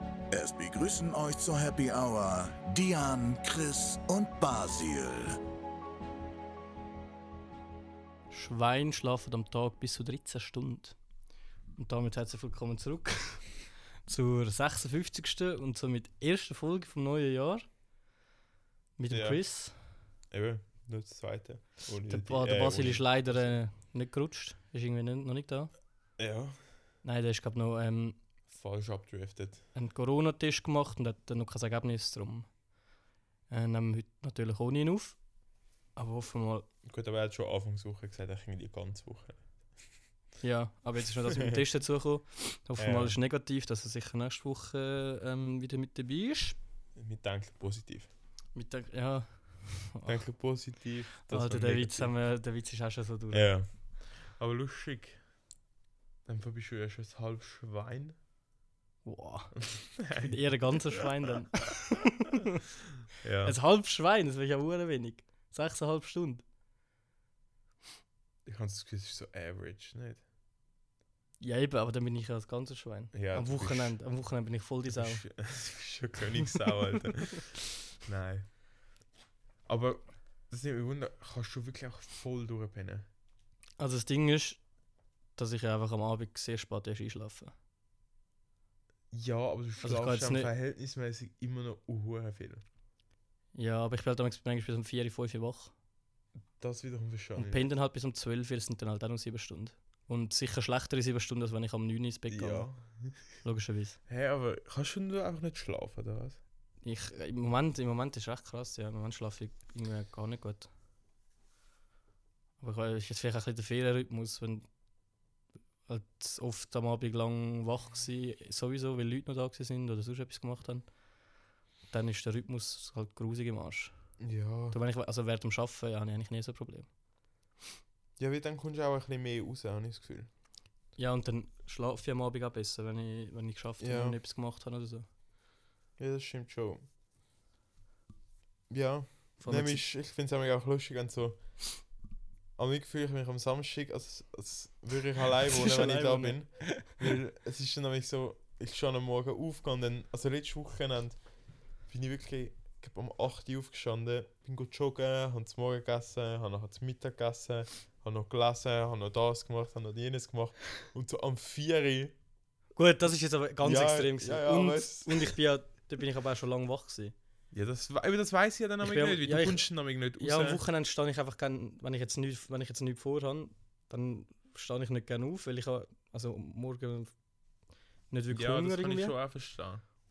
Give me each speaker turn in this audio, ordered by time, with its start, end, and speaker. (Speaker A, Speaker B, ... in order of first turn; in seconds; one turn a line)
Speaker A: 0.3-5.4
Speaker B: 8.3-11.0
Speaker B: 11.8-13.5
Speaker B: 14.1-17.6
Speaker B: 19.0-19.8
Speaker C: 19.1-19.4
Speaker C: 20.3-23.4
Speaker B: 22.1-25.7
Speaker C: 26.2-26.6
Speaker B: 27.0-28.2
Speaker C: 28.5-29.6
Speaker B: 29.7-32.5
Speaker B: 33.5-35.2
Speaker B: 36.0-36.7
Speaker C: 36.8-39.5
Speaker B: 40.4-46.6
Speaker C: 41.2-41.6
Speaker C: 42.8-43.1
Speaker C: 47.0-48.1
Speaker B: 48.5-50.2
Speaker C: 50.0-52.1
Speaker B: 51.2-53.5
Speaker C: 53.3-55.2
Speaker C: 56.2-58.2
Speaker B: 59.0-59.6
Speaker C: 59.5-61.1
Speaker B: 60.1-62.6
Speaker C: 63.2-63.5
Speaker B: 63.4-66.4
Speaker C: 68.5-70.2
Speaker B: 71.4-75.2
Speaker C: 73.1-74.0
Speaker C: 74.9-78.5
Speaker C: 79.7-83.1
Speaker B: 83.8-84.6
Speaker B: 85.3-87.5
Speaker C: 89.1-92.6
Speaker B: 89.8-90.5
Speaker B: 93.5-95.7
Speaker C: 96.6-97.7
Speaker B: 97.4-102.7
Speaker C: 102.3-103.2
Speaker B: 103.4-104.0
Speaker C: 104.1-106.4
Speaker B: 106.8-110.7
Speaker B: 112.6-114.7
Speaker B: 115.9-120.8
Speaker B: 121.9-123.9
Speaker C: 124.2-124.8
Speaker B: 124.7-126.9
Speaker C: 128.2-130.3
Speaker B: 131.0-135.1
Speaker C: 133.8-134.2
Speaker C: 136.0-136.8
Speaker C: 138.7-141.4
Speaker B: 139.4-139.8
Speaker C: 142.6-151.2
Speaker B: 145.5-147.0
Speaker C: 151.9-162.1
Speaker B: 162.8-167.1
Speaker C: 163.6-165.3
Speaker C: 167.5-170.6
Speaker B: 168.8-177.1
Speaker B: 178.1-179.2
Speaker C: 178.3-179.8